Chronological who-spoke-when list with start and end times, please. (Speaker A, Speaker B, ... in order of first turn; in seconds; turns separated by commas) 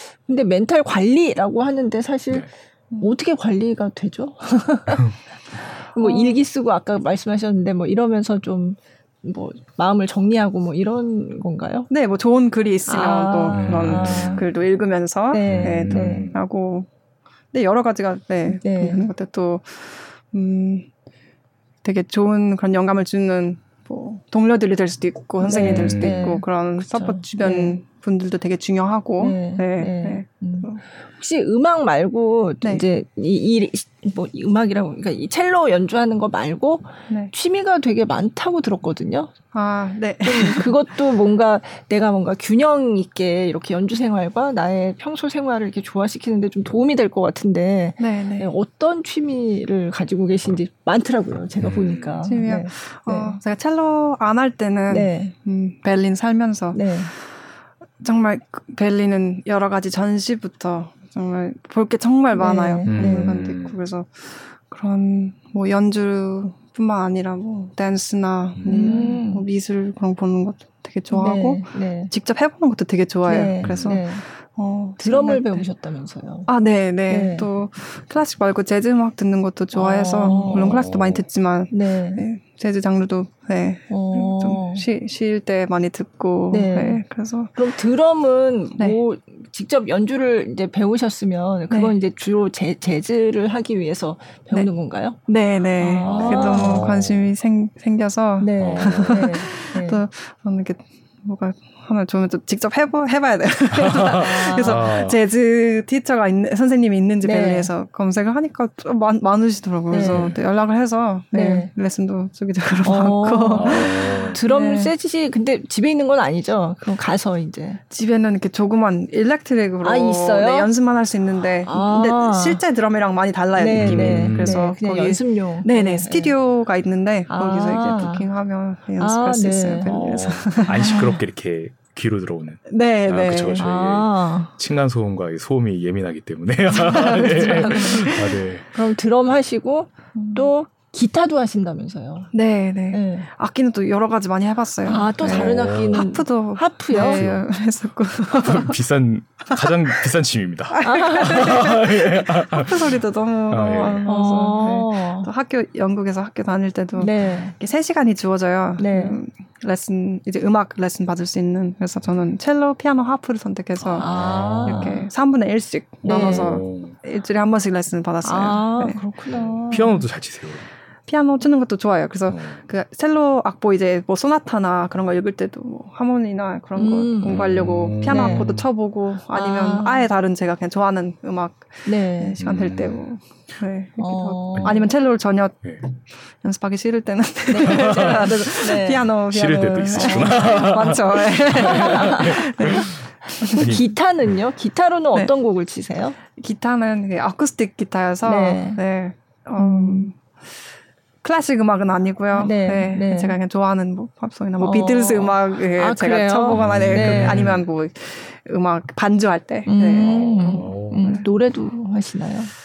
Speaker A: 0.2-2.5, Speaker B: 2.9-3.1, Speaker A: 3.0-11.9, Speaker B: 6.0-6.4, Speaker B: 11.9-16.9, Speaker A: 12.9-14.4, Speaker C: 13.5-14.4, Speaker A: 15.3-16.3, Speaker C: 15.4-16.3, Speaker B: 17.5-20.9, Speaker A: 18.5-19.1, Speaker B: 21.8-30.8, Speaker A: 25.4-27.7, Speaker C: 25.6-26.2, Speaker A: 29.2-39.3, Speaker B: 39.5-40.7, Speaker A: 40.2-53.4, Speaker B: 48.0-48.5, Speaker C: 51.6-52.3, Speaker B: 52.2-57.4, Speaker A: 54.9-55.3, Speaker A: 56.7-57.1, Speaker B: 58.0-75.6, Speaker A: 62.3-63.4, Speaker C: 62.9-63.8, Speaker C: 68.5-69.0, Speaker A: 68.7-69.4, Speaker A: 71.1-72.1, Speaker A: 73.2-74.2, Speaker C: 73.6-74.0, Speaker A: 75.0-76.5, Speaker B: 76.5-87.5, Speaker A: 77.1-77.5, Speaker A: 79.7-80.9, Speaker C: 80.7-81.2, Speaker A: 81.7-82.2, Speaker A: 83.9-84.8, Speaker A: 86.5-87.0, Speaker A: 87.5-95.2, Speaker B: 91.7-91.9, Speaker B: 95.2-114.9, Speaker A: 95.8-96.8, Speaker C: 96.0-97.3, Speaker A: 98.4-100.0, Speaker C: 98.6-99.3, Speaker C: 103.7-105.2, Speaker A: 104.1-104.9, Speaker A: 107.2-107.7, Speaker A: 109.9-110.3, Speaker C: 110.0-110.4, Speaker A: 111.3-111.7, Speaker A: 112.8-117.8, Speaker C: 113.5-114.4, Speaker B: 117.9-131.0, Speaker A: 119.8-120.7, Speaker A: 121.7-122.6, Speaker A: 123.5-126.3, Speaker C: 123.7-124.6, Speaker A: 127.3-128.2, Speaker A: 129.0-129.9, Speaker C: 129.8-138.7, Speaker A: 130.7-131.2, Speaker B: 132.7-133.6, Speaker A: 133.6-134.6, Speaker A: 136.7-142.3, Speaker B: 136.8-138.3, Speaker B: 140.1-140.5, Speaker B: 142.3-148.8, Speaker A: 142.9-143.3, Speaker A: 144.8-147.2, Speaker C: 145.2-146.1, Speaker C: 146.9-147.4, Speaker C: 148.3-153.0, Speaker B: 149.6-150.1, Speaker B: 150.7-169.1, Speaker A: 150.8-151.6, Speaker C: 153.5-154.1, Speaker A: 154.0-155.3, Speaker A: 157.0-157.6, Speaker A: 158.8-159.2, Speaker A: 163.8-165.1, Speaker C: 164.0-165.0, Speaker A: 166.0-166.6, Speaker C: 166.2-166.9, Speaker A: 168.2-170.0, Speaker C: 169.3-170.7, Speaker B: 171.1-193.7, Speaker C: 172.3-172.6, Speaker A: 176.8-177.4, Speaker C: 177.2-178.7, Speaker A: 178.0-178.5, Speaker A: 179.3-180.1, Speaker A: 181.8-182.4, Speaker C: 182.4-183.0, Speaker A: 184.0-184.9, Speaker A: 187.5-190.7, Speaker C: 187.7-188.4, Speaker C: 189.3-193.0, Speaker A: 191.6-196.2, Speaker C: 193.6-193.9, Speaker B: 196.3-200.5, Speaker A: 198.2-198.8, Speaker A: 199.6-200.1, Speaker B: 201.2-211.3, Speaker A: 202.3-203.4, Speaker A: 204.6-207.5, Speaker C: 206.5-207.6, Speaker A: 209.7-212.5, Speaker C: 210.5-211.1